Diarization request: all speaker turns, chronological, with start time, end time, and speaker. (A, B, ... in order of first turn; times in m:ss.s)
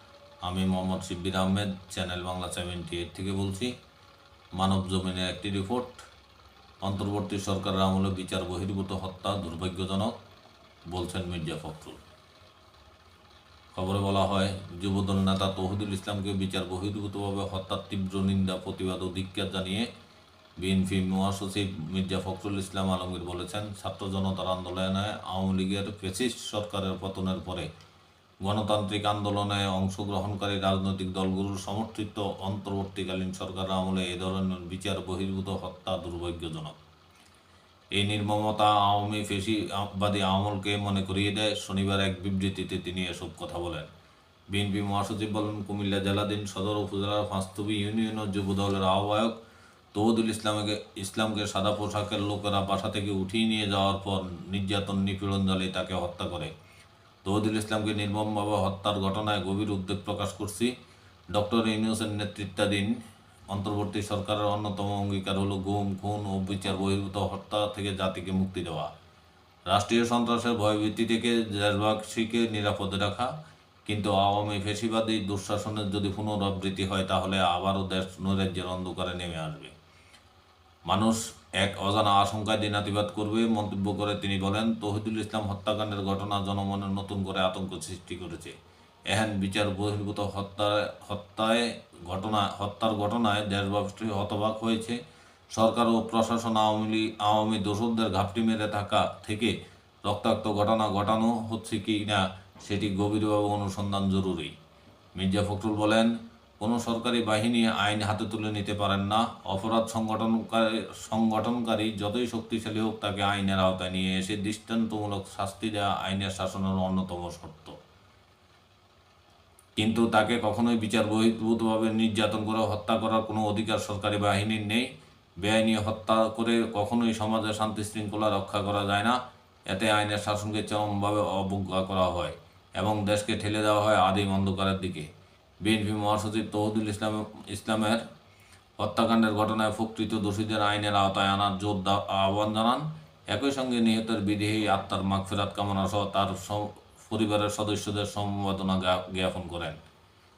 0:00.4-0:03.7 A
0:04.6-0:06.0 A
0:06.8-0:10.1 A
0:10.9-0:12.0 A
0:13.7-0:19.9 A
0:20.6-0:27.7 A
0:28.4-0:36.8 A
0:38.0-0:43.9 A
0:44.5-0:49.3 A
0:49.9-0:56.5 A
0:57.2-1:00.7 A
1:01.3-1:02.9 A
1:03.5-1:08.9 A
1:09.7-1:13.3 A
1:13.9-1:19.7 A
1:20.9-1:28.5 A
1:29.1-1:35.0 A
1:35.5-1:39.5 A
1:40.1-1:44.5 A
1:45.2-1:57.8 A
1:59.8-2:04.9 A
2:05.4-2:09.2 A
2:09.7-2:15.1 A
2:15.6-2:18.0 A
2:18.8-2:29.8 A